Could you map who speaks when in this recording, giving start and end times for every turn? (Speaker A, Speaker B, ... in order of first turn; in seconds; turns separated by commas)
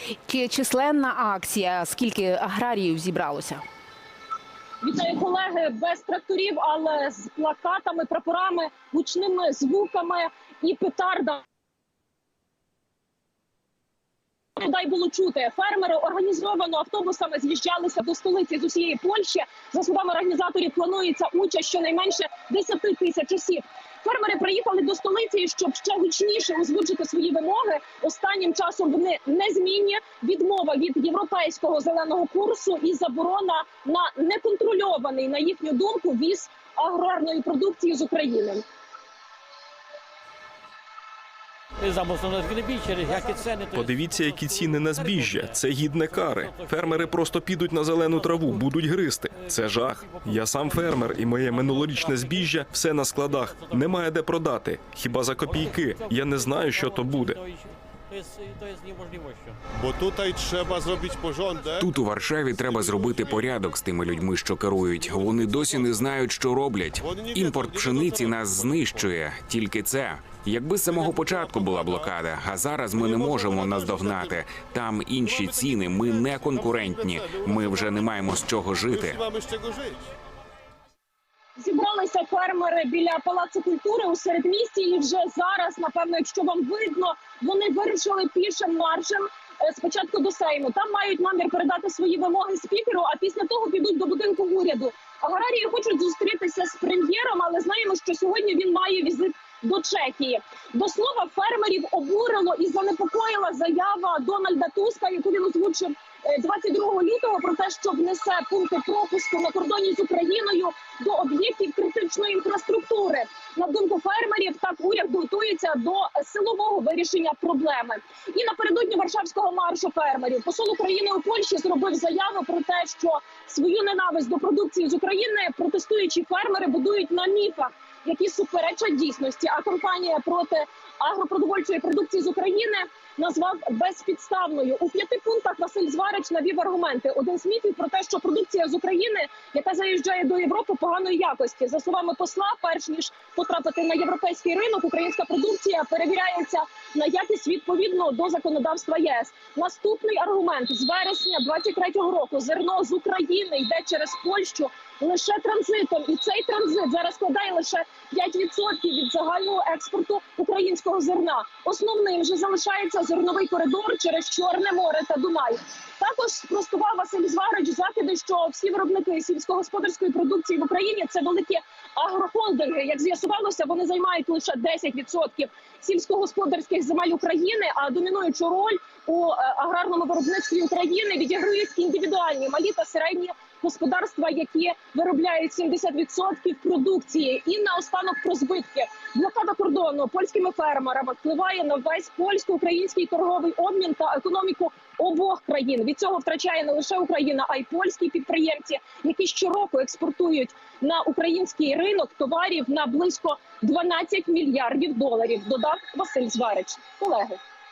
Speaker A: 0.3-3.6, Speaker B: 4.8-11.4, Speaker B: 14.6-38.6, Speaker C: 41.8-54.1, Speaker D: 43.7-57.4, Speaker C: 55.3-59.6, Speaker E: 59.8-61.9, Speaker F: 61.8-79.2, Speaker E: 62.5-63.6, Speaker E: 64.7-66.2, Speaker E: 66.9-69.2, Speaker E: 70.8-72.2, Speaker E: 72.9-74.4, Speaker E: 75.2-80.0, Speaker B: 81.6-207.4